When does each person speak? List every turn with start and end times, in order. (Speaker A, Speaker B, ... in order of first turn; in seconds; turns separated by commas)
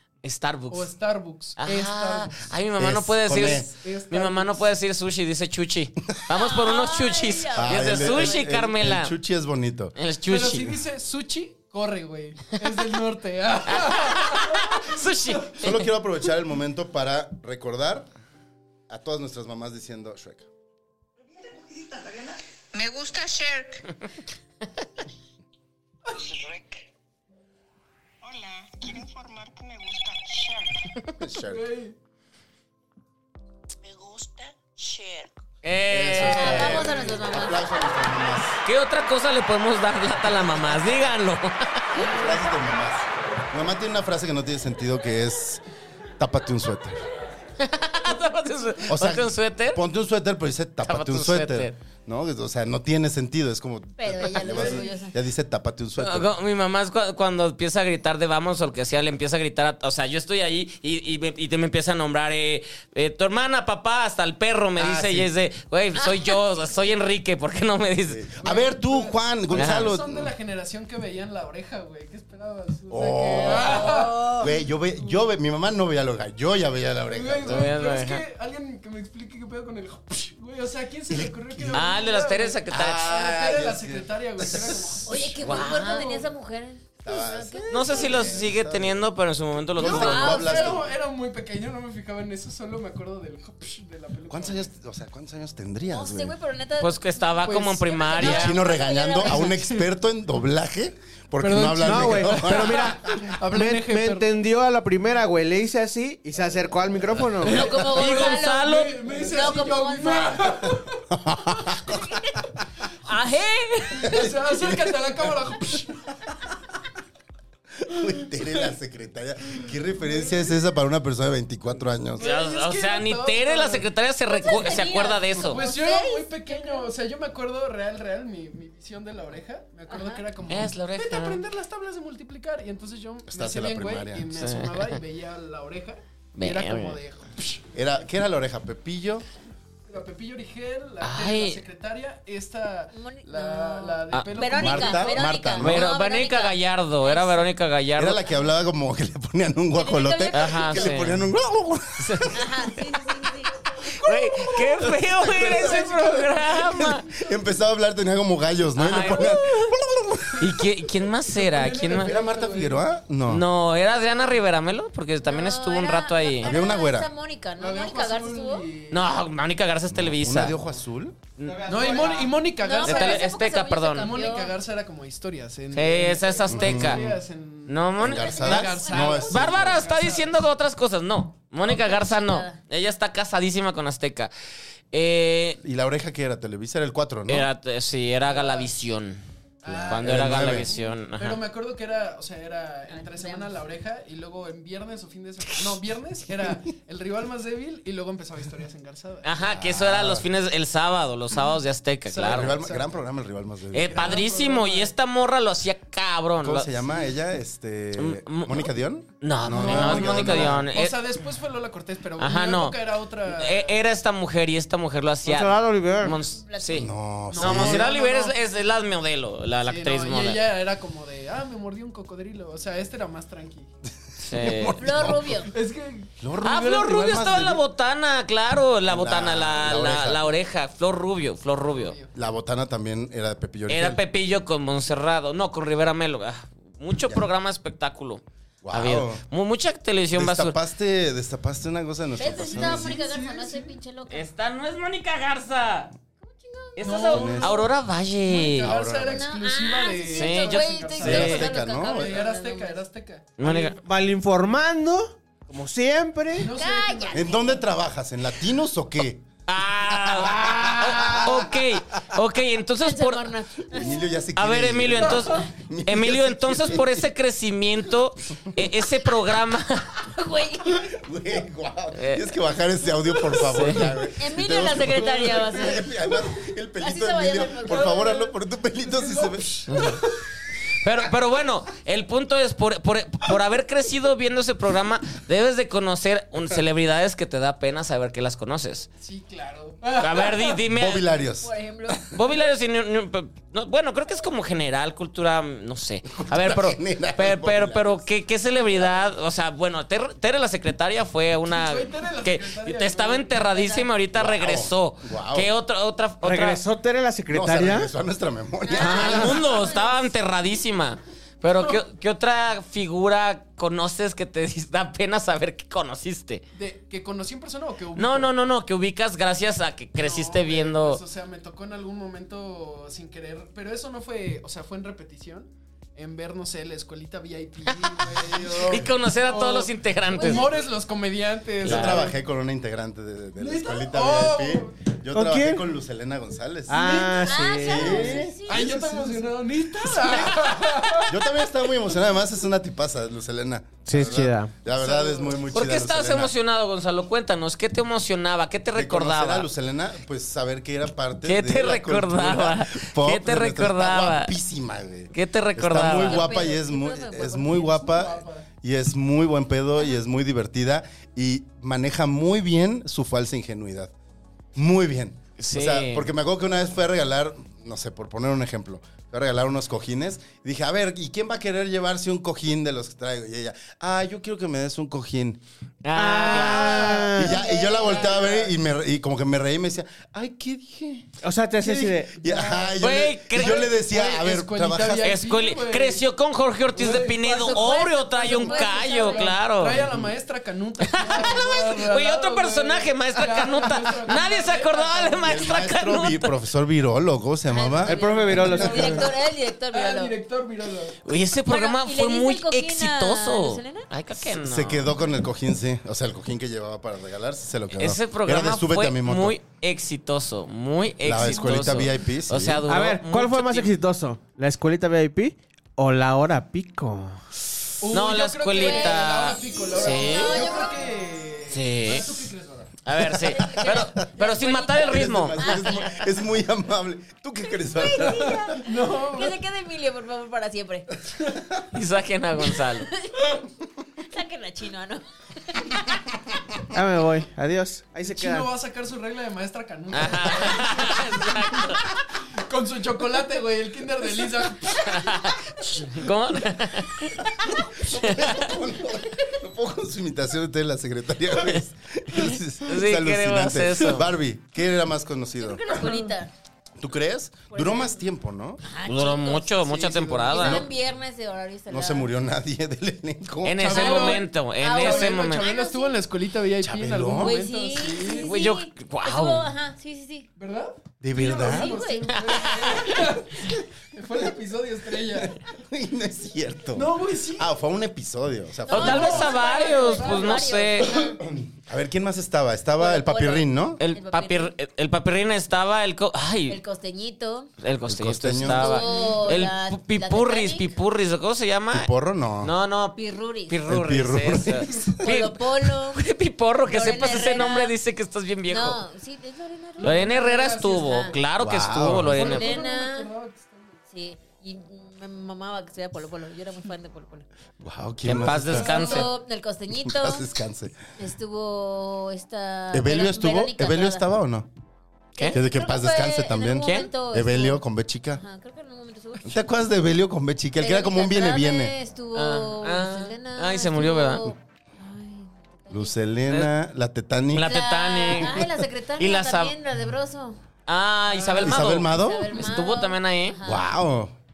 Speaker A: 0.2-0.9, Speaker B: 0.7-2.5, Speaker A: 1.6-9.1, Speaker C: 2.8-3.7, Speaker B: 3.3-4.7, Speaker D: 6.3-8.5, Speaker C: 7.6-9.9, Speaker A: 9.9-10.8, Speaker B: 10.2-15.5, Speaker A: 13.7-15.9, Speaker C: 15.6-18.1, Speaker C: 18.9-20.5, Speaker E: 22.7-23.7, Speaker E: 26.2-26.7, Speaker E: 28.2-30.6, Speaker C: 31.2-31.6, Speaker B: 31.4-31.9, Speaker E: 33.8-35.3, Speaker A: 35.6-37.0, Speaker C: 35.9-38.6, Speaker D: 36.1-37.7, Speaker A: 38.6-42.0, Speaker C: 41.9-45.6, Speaker C: 46.2-47.0, Speaker A: 47.6-49.8, Speaker C: 48.9-56.3, Speaker A: 50.8-51.7, Speaker D: 54.0-55.1, Speaker B: 54.5-54.9, Speaker A: 56.0-68.2, Speaker C: 64.8-65.3, Speaker D: 66.0-66.4, Speaker C: 68.1-70.3, Speaker B: 68.4-74.3, Speaker A: 69.5-69.9, Speaker C: 72.9-77.7, Speaker D: 73.5-74.5, Speaker B: 77.1-86.2, Speaker A: 77.5-78.2, Speaker C: 81.1-81.9, Speaker A: 81.7-83.2, Speaker C: 82.7-85.2, Speaker D: 85.0-88.3, Speaker A: 85.4-86.2, Speaker C: 87.0-89.1, Speaker A: 87.7-90.5, Speaker C: 89.7-90.9, Speaker B: 89.8-94.7, Speaker D: 89.8-90.8, Speaker C: 94.3-96.3, Speaker D: 95.9-99.5, Speaker A: 96.8-98.6, Speaker B: 97.5-97.8, Speaker C: 98.2-103.3, Speaker B: 99.2-99.8, Speaker B: 101.4-104.3, Speaker F: 101.8-107.6, Speaker D: 107.4-110.5, Speaker B: 107.4-111.0, Speaker A: 107.6-109.0, Speaker C: 111.1-112.1, Speaker D: 111.9-112.4, Speaker D: 113.0-114.2, Speaker B: 114.0-116.0, Speaker C: 114.0-115.8, Speaker C: 117.8-122.3, Speaker B: 118.0-118.7, Speaker B: 119.9-120.5, Speaker B: 122.2-123.8, Speaker A: 122.2-125.6, Speaker D: 124.3-126.9, Speaker B: 124.5-124.8, Speaker B: 125.3-137.6, Speaker D: 129.9-130.2, Speaker A: 130.5-131.4, Speaker C: 133.3-134.3, Speaker A: 134.3-135.0, Speaker A: 136.3-137.0, Speaker C: 137.7-139.2, Speaker B: 139.9-145.2, Speaker A: 141.0-141.6, Speaker D: 142.9-147.5, Speaker C: 144.4-145.9, Speaker A: 145.6-148.2, Speaker C: 148.0-152.9, Speaker D: 149.7-151.0, Speaker A: 150.3-151.2, Speaker A: 152.0-152.3, Speaker D: 152.3-153.5, Speaker A: 153.9-157.1, Speaker B: 154.1-154.5, Speaker C: 155.2-160.4, Speaker B: 155.2-156.6, Speaker A: 158.8-159.7, Speaker B: 158.9-159.3, Speaker A: 160.4-162.1, Speaker B: 161.3-162.8, Speaker C: 161.9-163.4, Speaker A: 163.3-166.5, Speaker D: 165.2-168.7, Speaker C: 166.4-167.1, Speaker B: 167.6-169.2, Speaker A: 168.9-170.6, Speaker C: 169.9-171.2, Speaker A: 171.4-171.7, Speaker F: 171.5-172.3, Speaker B: 171.7-173.3, Speaker D: 172.6-174.5, Speaker A: 172.8-174.1, Speaker B: 174.0-180.5, Speaker A: 175.7-177.0, Speaker C: 176.5-177.2, Speaker A: 177.7-184.3, Speaker C: 178.0-179.8, Speaker D: 178.2-179.4, Speaker D: 181.6-182.6, Speaker A: 184.9-185.6, Speaker C: 185.6-187.5, Speaker A: 187.3-189.2, Speaker B: 188.2-188.7, Speaker B: 189.6-199.3, Speaker C: 189.6-190.7, Speaker A: 189.8-191.4, Speaker D: 192.9-193.6, Speaker A: 199.2-202.6, Speaker C: 199.4-200.3, Speaker B: 202.1-202.9, Speaker C: 202.1-204.2, Speaker A: 203.7-206.7, Speaker B: 203.8-204.9, Speaker C: 206.4-210.7, Speaker A: 207.9-208.7, Speaker A: 209.2-211.0, Speaker B: 209.5-213.8, Speaker A: 212.2-220.4, Speaker F: 215.2-216.2, Speaker D: 216.3-216.8, Speaker C: 216.7-217.9, Speaker B: 217.3-218.3, Speaker B: 219.6-223.7, Speaker A: 224.2-224.8, Speaker C: 224.2-225.4, Speaker D: 224.8-225.5, Speaker B: 225.5-226.1, Speaker C: 226.2-227.6, Speaker A: 226.4-231.9, Speaker C: 228.8-230.2, Speaker B: 231.7-232.1, Speaker C: 232.1-234.0, Speaker A: 233.7-240.6, Speaker C: 238.6-239.2, Speaker C: 240.1-243.0, Speaker D: 242.1-244.3, Speaker B: 242.2-243.8, Speaker A: 244.1-245.9, Speaker D: 246.2-247.1, Speaker A: 246.8-248.7, Speaker B: 246.8-247.7, Speaker C: 247.1-247.6, Speaker B: 248.2-253.4, Speaker C: 248.6-249.3, Speaker D: 249.0-252.8, Speaker A: 250.1-251.4, Speaker C: 251.0-252.2, Speaker A: 253.4-253.8, Speaker F: 253.4-256.5, Speaker B: 256.4-257.6, Speaker D: 256.5-257.4, Speaker C: 257.1-259.3, Speaker A: 259.5-263.3, Speaker C: 259.9-261.5, Speaker D: 262.8-264.1, Speaker C: 263.7-267.0, Speaker A: 264.4-269.9, Speaker D: 270.1-270.9, Speaker C: 270.8-280.0, Speaker A: 271.9-272.3, Speaker A: 273.4-273.9, Speaker D: 274.1-275.9, Speaker B: 274.9-275.8, Speaker D: 276.8-278.2, Speaker B: 277.6-280.1, Speaker A: 279.7-280.0, Speaker A: 280.8-288.9, Speaker B: 289.0-290.6, Speaker A: 289.9-291.1, Speaker C: 290.7-291.9, Speaker D: 291.4-292.0, Speaker A: 292.1-306.6, Speaker C: 296.1-298.0, Speaker B: 301.5-303.4, Speaker D: 303.3-303.9, Speaker C: 304.1-305.5, Speaker F: 306.2-307.9, Speaker C: 307.3-309.4, Speaker D: 308.6-310.1, Speaker A: 308.8-316.4, Speaker B: 316.5-318.3, Speaker A: 317.9-321.0, Speaker B: 320.0-332.2, Speaker A: 327.7-330.6, Speaker D: 330.1-330.5, Speaker A: 331.6-332.1, Speaker C: 331.6-337.1, Speaker B: 333.4-334.9, Speaker F: 335.1-335.6, Speaker F: 336.7-338.3, Speaker B: 336.7-341.4, Speaker D: 337.2-339.2, Speaker C: 337.6-338.3, Speaker A: 340.0-340.3, Speaker C: 341.1-346.3, Speaker F: 343.8-344.5, Speaker B: 344.7-345.4, Speaker A: 345.5-349.5, Speaker C: 348.7-363.9, Speaker A: 351.2-354.3, Speaker A: 355.1-356.3, Speaker D: 356.0-357.7, Speaker B: 357.5-358.5, Speaker C: 364.5-375.4, Speaker A: 365.4-366.1, Speaker A: 375.8-377.1, Speaker F: 375.9-377.4, Speaker B: 376.2-378.5, Speaker C: 377.1-385.1, Speaker D: 377.3-378.4, Speaker F: 381.2-382.3, Speaker B: 382.3-382.7, Speaker A: 382.8-383.7, Speaker B: 383.3-386.0, Speaker A: 385.0-390.0, Speaker B: 386.7-395.6, Speaker D: 387.2-389.3, Speaker A: 390.9-396.4, Speaker C: 395.2-398.8, Speaker D: 397.5-400.1, Speaker F: 397.8-399.1, Speaker B: 398.3-401.0, Speaker A: 401.0-404.9, Speaker D: 401.5-403.9, Speaker C: 404.2-409.4, Speaker A: 407.7-413.7, Speaker C: 411.0-412.6, Speaker F: 412.7-417.2, Speaker B: 417.8-422.7, Speaker A: 417.9-420.4, Speaker D: 418.6-420.9, Speaker A: 421.5-422.3, Speaker A: 422.8-425.7, Speaker C: 423.0-423.8, Speaker D: 423.2-426.0, Speaker C: 424.8-428.5, Speaker D: 427.7-430.9, Speaker B: 428.5-429.4, Speaker A: 431.7-432.9, Speaker D: 432.9-433.2, Speaker D: 434.1-436.0, Speaker F: 436.7-438.5, Speaker B: 438.0-445.9, Speaker A: 439.9-441.9, Speaker A: 444.9-447.1, Speaker C: 447.6-455.8, Speaker A: 447.9-448.4, Speaker A: 452.1-454.1, Speaker D: 455.4-456.3, Speaker C: 456.8-458.6, Speaker D: 457.5-458.0, Speaker D: 458.6-462.1, Speaker A: 458.8-460.6, Speaker B: 459.7-460.6, Speaker C: 461.7-463.7, Speaker A: 463.4-465.5, Speaker B: 463.6-468.3, Speaker D: 463.7-466.0, Speaker C: 466.6-467.4, Speaker D: 467.1-470.3, Speaker A: 468.2-469.5, Speaker B: 470.4-475.4, Speaker C: 471.0-471.8, Speaker D: 471.2-472.5, Speaker A: 472.2-472.9, Speaker C: 475.1-479.3, Speaker B: 476.7-477.5, Speaker D: 478.6-481.2, Speaker A: 478.7-481.0, Speaker B: 478.7-481.1, Speaker C: 481.2-483.8, Speaker D: 482.8-484.5, Speaker A: 483.8-486.6, Speaker D: 486.5-487.5, Speaker A: 487.6-491.9, Speaker C: 487.9-488.8, Speaker D: 488.4-490.7, Speaker B: 488.8-489.4, Speaker C: 491.7-492.5, Speaker A: 492.4-498.8, Speaker D: 492.9-493.6, Speaker C: 493.7-495.0, Speaker D: 495.0-496.0, Speaker D: 496.7-497.7, Speaker D: 498.5-501.1, Speaker B: 499.8-501.1, Speaker A: 499.8-502.6, Speaker C: 501.4-502.3, Speaker B: 502.1-503.8, Speaker D: 502.2-503.1, Speaker D: 503.9-507.2, Speaker C: 507.6-508.7, Speaker A: 508.0-509.1, Speaker D: 508.4-510.2, Speaker B: 508.7-509.1, Speaker C: 509.7-510.8, Speaker D: 511.0-514.0, Speaker C: 512.7-514.5, Speaker D: 515.2-517.6, Speaker C: 515.3-518.2, Speaker A: 516.6-516.9, Speaker D: 518.1-519.5, Speaker C: 519.2-521.7, Speaker D: 520.6-526.0, Speaker A: 522.1-524.3, Speaker C: 525.7-527.5, Speaker A: 527.3-529.5, Speaker D: 527.4-530.4, Speaker A: 530.7-533.4, Speaker B: 531.1-531.6, Speaker C: 531.4-532.3, Speaker D: 531.8-533.7, Speaker C: 533.4-534.1